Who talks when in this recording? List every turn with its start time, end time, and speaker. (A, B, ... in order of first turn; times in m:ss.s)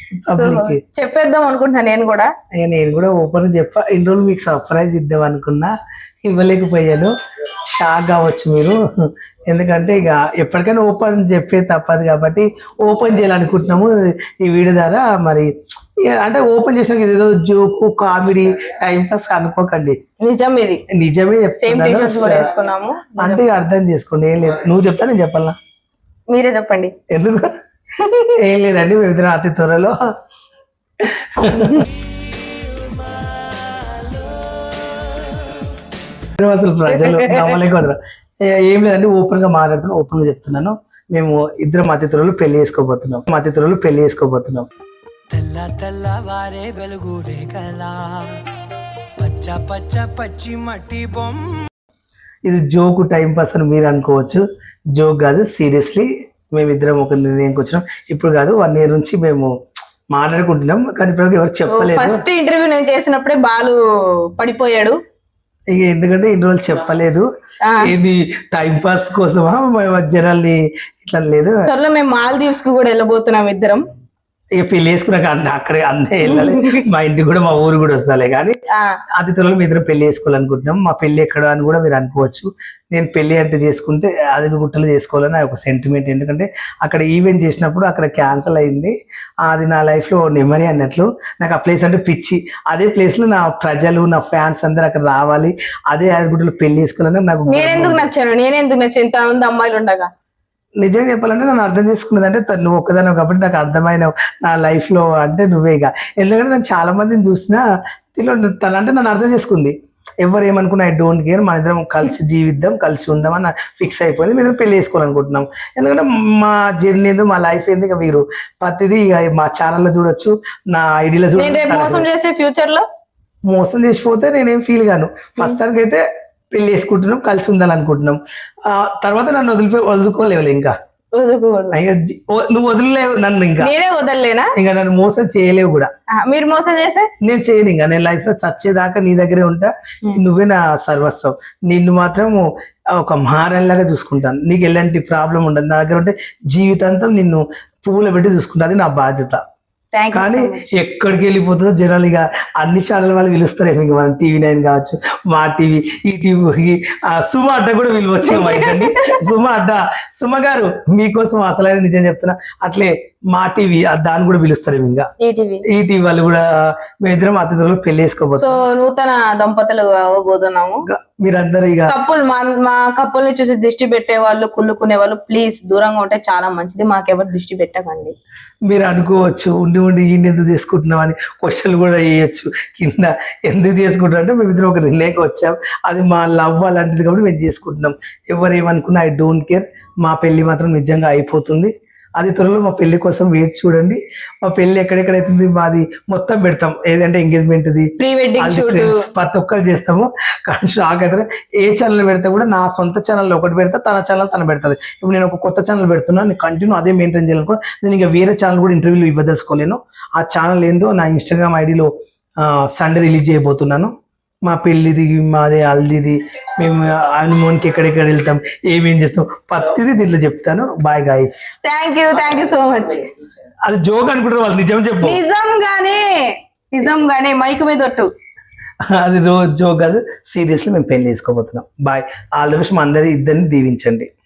0:00.1-0:00.8 A
0:00.3-0:02.3 B
0:02.6-0:05.7 A
0:06.2-0:07.1 A
0:07.7-0:15.5 A
0:16.0-0:20.0 A
0:20.2-0:20.8 B
0:20.9-0:22.5 A
0:21.6-0:23.4 B
0:23.2-0:25.6 A
0:26.3-0:26.9 B
0:27.1-0:27.5 A
0:28.0-0:28.3 B
0:28.4-0:30.0 A
0:31.0-0:31.9 A
0:31.9-0:35.6 C
0:36.4-0:44.7 A
0:36.9-0:37.6 B
0:45.3-0:48.4 C
0:49.2-0:51.6 C
0:52.4-0:59.5 A
1:00.1-1:02.2 A
1:01.7-1:03.8 B
1:04.4-1:05.0 B
1:05.7-1:07.3 A
1:07.6-1:07.9 B
1:07.8-1:11.7 A
1:11.7-1:13.9 B
1:14.5-1:18.6 A
1:16.2-1:16.8 B
1:18.7-1:19.0 B
1:19.2-1:38.1 A
1:37.5-1:40.1 B
1:40.8-1:47.6 A
1:48.1-2:02.0 A
2:01.4-2:02.8 B
2:03.5-2:10.7 A
2:11.2-2:11.8 B
2:11.7-2:13.7 A
2:13.6-2:14.5 B
2:14.6-2:15.9 A
2:16.1-2:17.1 B
2:17.2-2:29.4 A
2:29.9-2:30.7 B
2:30.1-2:45.1 A
2:38.2-2:39.2 B
2:45.2-2:45.6 B
2:45.7-2:48.6 A
2:48.3-2:50.8 B
2:50.9-2:51.9 A
2:51.9-2:58.1 B
2:58.7-3:33.9 A
3:18.0-3:19.0 B
3:34.4-3:41.4 A
3:41.6-3:43.1 B
3:43.6-3:45.2 A
3:45.0-3:48.1 B
3:48.9-3:54.1 A